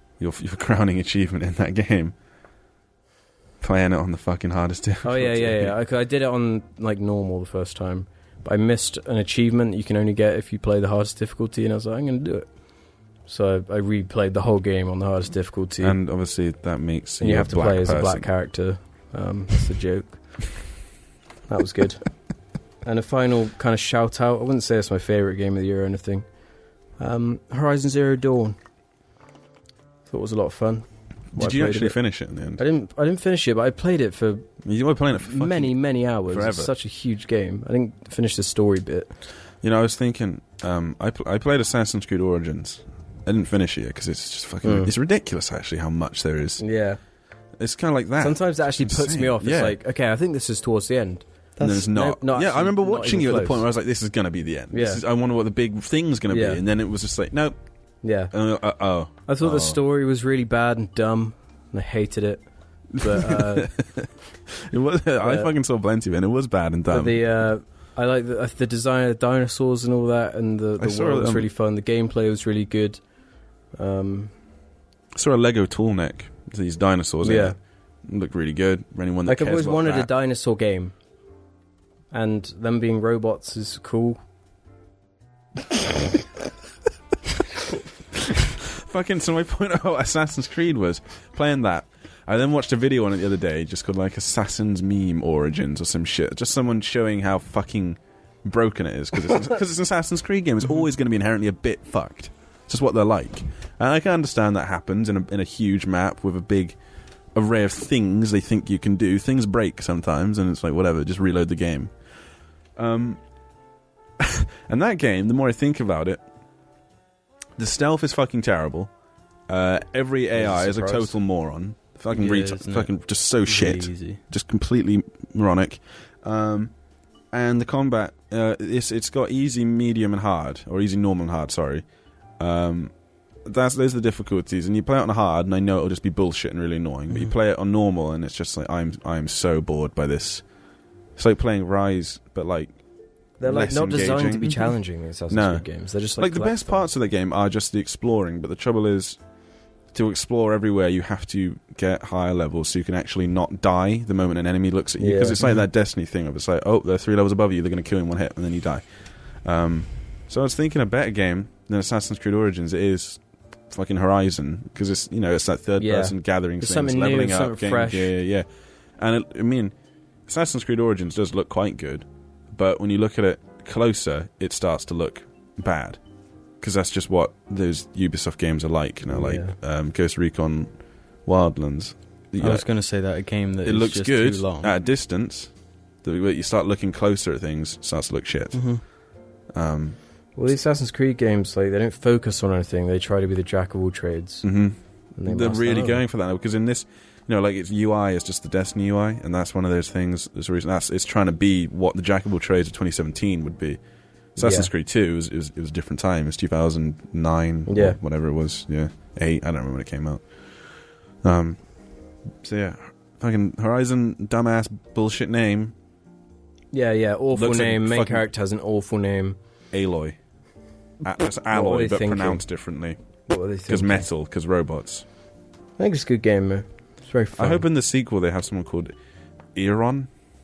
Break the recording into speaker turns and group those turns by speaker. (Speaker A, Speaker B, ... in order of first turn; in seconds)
Speaker A: 0.2-2.1, 3.6-5.8, 15.8-18.3, 31.3-32.6, 34.6-36.7, 39.6-46.6, 47.6-49.8, 51.6-57.5, 58.3-59.8, 63.0-67.2, 70.8-71.5, 75.1-80.1, 88.6-106.8, 107.3-111.9, 112.8-113.2, 114.2-116.2, 117.6-118.9, 119.5-126.7, 127.3-131.8, 132.4-132.9, 133.4-140.4, 141.2-142.8, 143.4-144.8, 145.3-145.7, 146.2-149.2, 149.9-168.5, 169.0-169.7, 170.3-176.0, 176.6-182.7, 183.6-185.5, 186.0-188.7, 189.5-190.0, 194.4-203.8, 204.4-210.3, 211.2-211.6, 212.4-215.8, 217.3-218.3, 219.7-220.2, 221.0-223.0, 223.7-225.1, 227.4-228.9, 229.6-230.1
Speaker B: 5.0-12.5, 13.3-16.0, 17.2-20.4, 21.5-22.1, 22.8-26.3, 27.0-28.6, 30.1-32.0, 32.6-34.5, 35.2-39.1, 44.6-44.9, 46.6-47.0, 48.2-53.6, 54.7-55.0, 56.3-56.6, 58.0-58.3, 59.3-63.7, 65.2-65.5, 66.9-73.0, 73.8-74.3, 77.2-77.6, 79.3-80.9, 82.1-84.2, 120.3-121.2, 143.4-146.9, 155.0-155.5, 165.8-168.1, 179.1-179.6, 190.3-194.5, 195.2-196.0, 204.4-204.7, 207.7-208.0, 216.7-219.4, 221.5-222.4, 223.3-224.1, 225.8-227.7
Speaker C: 51.6-51.9, 122.1-124.2, 182.4-184.7, 188.5-188.8